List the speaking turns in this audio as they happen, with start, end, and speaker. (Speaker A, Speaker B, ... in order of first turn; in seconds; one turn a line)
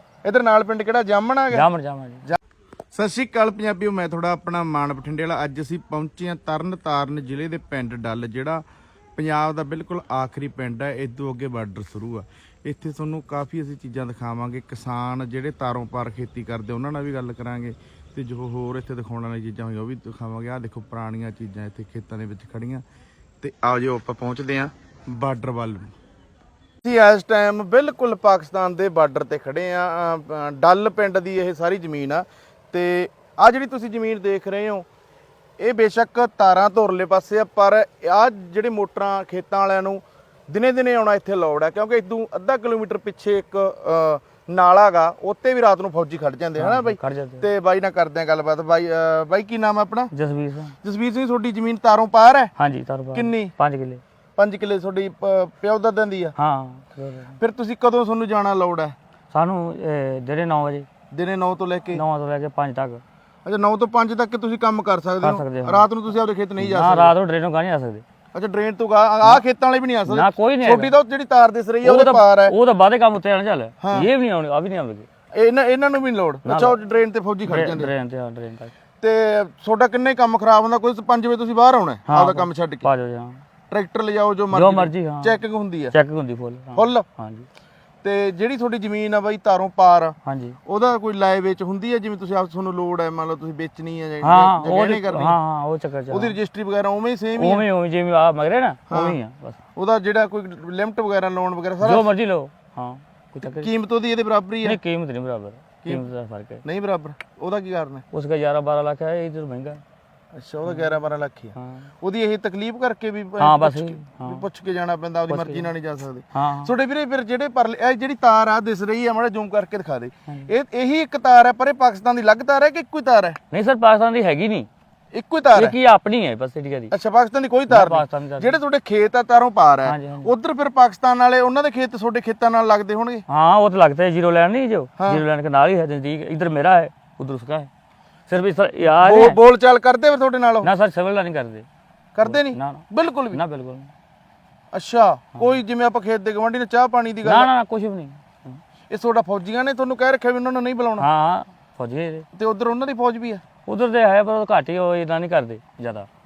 Speaker A: 0.2-1.7
Speaker B: 1.5-2.2
Speaker A: 2.9-8.6
Speaker A: 9.2-22.8
Speaker A: 23.4-25.9
Speaker A: 26.8-34.9
Speaker A: 35.6-50.1
Speaker B: 46.6-47.5
Speaker B: 50.1-50.8
Speaker A: 50.8-52.5
Speaker B: 52.6-54.0
Speaker A: 53.1-53.5
Speaker A: 54.4-56.4
Speaker B: 56.4-57.4
Speaker A: 57.4-59.0
Speaker B: 59.3-60.9
Speaker A: 61.1-62.0
Speaker B: 61.9-63.0
Speaker A: 63.5-67.1
Speaker B: 65.2-65.9
Speaker B: 66.6-68.0
Speaker A: 68.3-72.5
Speaker B: 70.1-70.9
Speaker B: 71.8-75.1
Speaker A: 73.8-74.1
Speaker A: 75.3-77.9
Speaker B: 76.5-76.8
Speaker B: 77.5-78.7
Speaker A: 79.0-82.9
Speaker B: 82.1-83.4
Speaker A: 83.7-86.0
Speaker B: 84.5-85.4
Speaker B: 85.9-87.5
Speaker A: 86.7-87.0
Speaker A: 88.0-90.2
Speaker B: 90.2-90.6
Speaker A: 90.7-95.4
Speaker B: 94.2-96.4
Speaker A: 96.1-97.7
Speaker B: 97.4-99.6
Speaker A: 98.9-99.2
Speaker A: 99.8-102.0
Speaker B: 101.8-103.7
Speaker A: 103.4-104.8
Speaker B: 104.6-106.6
Speaker A: 106.6-108.0
Speaker B: 108.1-109.8
Speaker A: 110.3-123.4
Speaker B: 110.7-110.9
Speaker B: 111.5-111.9
Speaker B: 113.4-114.5
Speaker B: 115.3-115.7
Speaker B: 116.3-116.7
Speaker B: 123.5-124.7
Speaker A: 125.1-125.8
Speaker B: 125.5-126.9
Speaker A: 126.9-133.2
Speaker B: 127.7-128.6
Speaker B: 129.8-130.3
Speaker B: 133.3-137.7
Speaker B: 138.3-139.4
Speaker A: 138.9-140.7
Speaker B: 140.6-141.7
Speaker A: 142.2-143.4
Speaker B: 142.2-143.9
Speaker A: 144.7-147.5
Speaker B: 147.2-148.6
Speaker A: 148.9-151.1
Speaker B: 151.0-152.3
Speaker A: 152.3-153.4
Speaker B: 153.7-156.1